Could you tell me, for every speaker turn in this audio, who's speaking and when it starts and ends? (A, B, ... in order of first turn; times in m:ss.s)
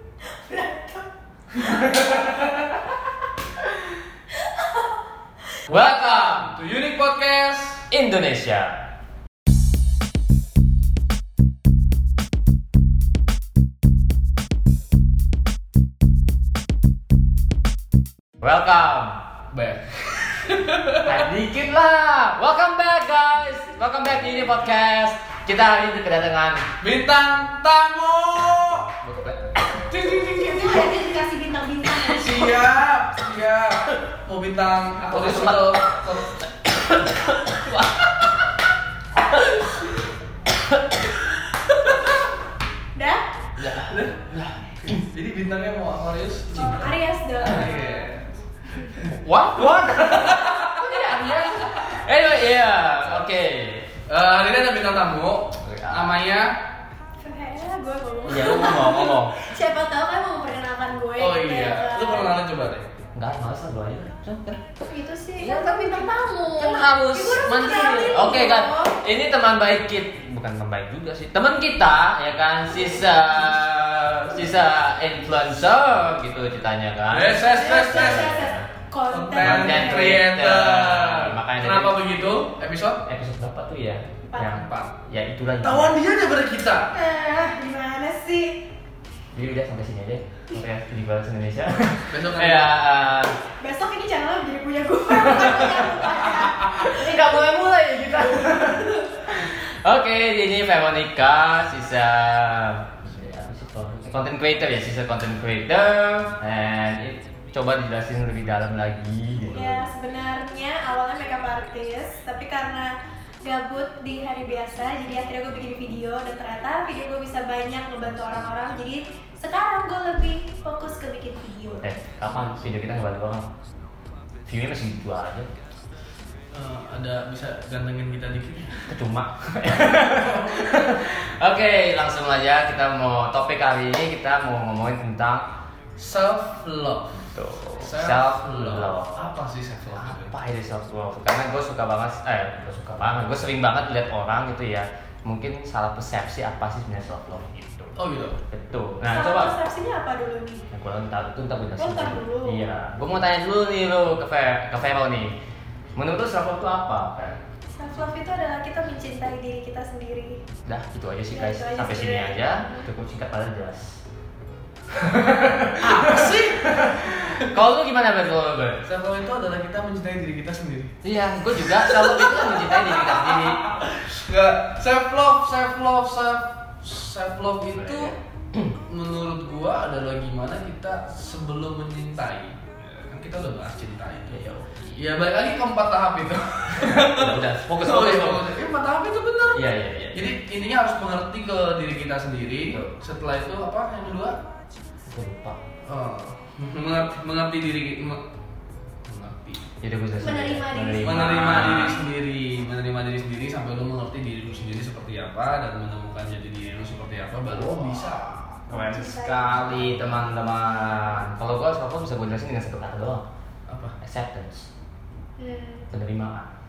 0:00.3-0:02.5 A
0:01.6-0:02.6 B
0:04.4-0:04.9 A
0:05.7-0:06.6 C
0:06.4-0:07.8 B
0:07.9-0:08.8 C
0:18.4-0:19.2 C
0:19.5-0:21.2 B
0:21.0-0:26.7 C
0:26.8-0:28.9 B
0:29.0-0:29.6 C
0:29.9-0:30.8 B
0:29.9-0:32.5 A
0:31.9-0:36.3 B
0:35.1-0:35.9 C
0:36.9-0:38.0 C
0:39.4-0:39.9 B
0:41.5-0:42.2 B
0:42.9-0:43.2 A
0:43.6-0:45.0 C
0:43.8-0:50.9 B
0:46.5-0:48.1 A
0:49.3-0:53.9 C
0:50.9-0:51.6 A
0:51.7-0:52.0 B
0:54.1-0:56.6 B
0:55.6-0:56.2 C
0:57.2-1:02.4 A
0:58.2-0:59.3 C
1:01.2-1:02.8 B
1:03.1-1:04.6 C
1:04.9-1:09.0 A
1:05.4-1:18.7 C
1:12.7-1:13.2 A
1:17.1-1:18.4 B
1:17.4-1:20.1 A
1:19.1-1:23.0 B
1:19.4-1:22.4 C
1:23.0-1:26.0 C
1:24.4-1:24.9 B
1:25.6-1:26.9 B
1:26.9-1:28.6 A
1:29.3-1:33.4 C
1:32.1-1:32.8 B
1:33.6-1:37.4 A
1:35.1-1:49.9 C
1:49.5-1:52.9 A
1:53.4-2:01.9 A
2:01.8-2:03.5 C
2:04.4-2:05.5 C
2:06.5-2:08.9 B
2:08.9-2:15.4 C
2:10.2-2:10.6 B
2:16.0-2:17.2 B
2:17.1-2:19.3 C
2:17.8-2:20.3 B
2:20.0-2:27.9 C
2:28.0-2:28.4 B
2:28.5-2:29.6 C
2:29.1-2:30.6 A
2:30.7-2:35.3 C
2:31.8-2:32.6 A
2:35.9-2:37.4 C
2:37.7-2:40.4 A
2:40.6-2:44.0 C
2:41.3-2:42.9 A
2:44.9-2:48.8 C
2:45.8-2:47.4 B
2:48.8-2:51.0 B
2:51.0-2:53.8 C
2:51.6-2:58.1 B
2:57.8-2:58.8 C
2:58.8-3:14.4 B
3:04.3-3:05.0 C
3:06.9-3:08.5 C
3:09.5-3:10.3 C
3:15.0-3:15.6 C
3:15.8-3:18.2 B
3:19.0-3:19.6 B
3:19.8-3:22.0 C
3:20.2-3:22.0 A
3:21.0-3:28.7 B
3:27.5-3:28.1 C
3:28.7-3:30.2 A
3:28.7-3:33.2 C
3:33.7-3:34.0 B
3:34.0-3:34.7 C
3:35.4-3:35.9 A
3:35.9-3:36.5 C